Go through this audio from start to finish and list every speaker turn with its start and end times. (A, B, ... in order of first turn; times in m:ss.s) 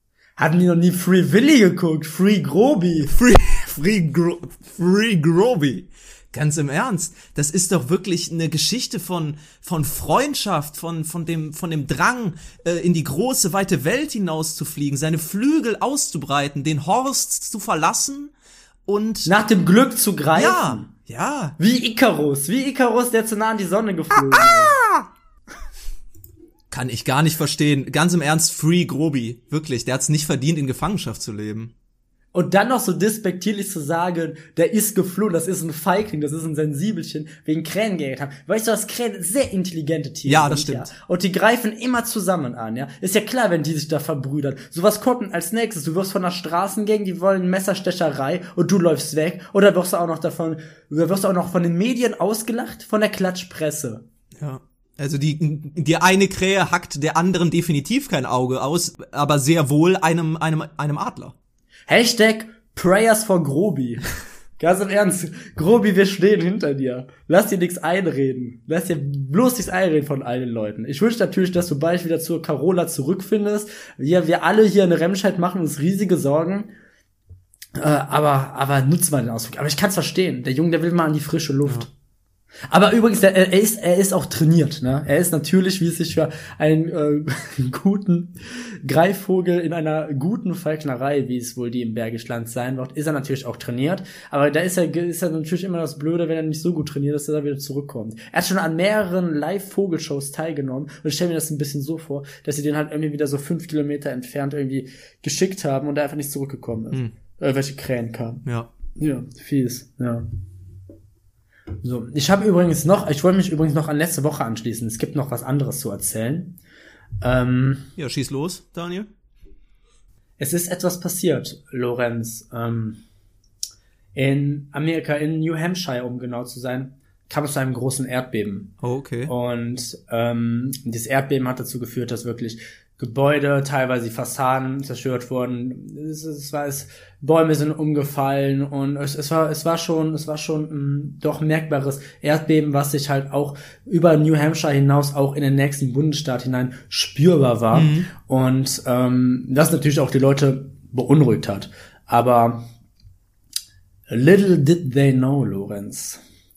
0:00.4-0:03.1 A
0:03.1-0:18.3 B
0:18.9-0:19.3 B
0:19.3-0:20.9 A
0:20.4-0:21.6 B
0:21.6-0:24.8 A
0:24.3-0:25.0 B
0:26.7-0:31.7 B
0:32.3-0:54.0 A
0:40.3-0:40.9 B
0:54.4-1:01.4 B
1:01.9-1:04.0 A
1:04.6-1:16.7 A
1:17.8-1:21.9 A
1:22.7-1:48.4 A
1:49.0-1:50.3 A
1:51.8-1:56.6 A
1:57.2-1:57.9 A
1:58.0-1:59.1 B
2:00.4-2:03.0 A
2:04.2-2:08.7 A
2:08.8-2:09.3 B
2:09.3-2:32.7 A
2:27.7-2:28.1 B
2:34.1-2:36.2 A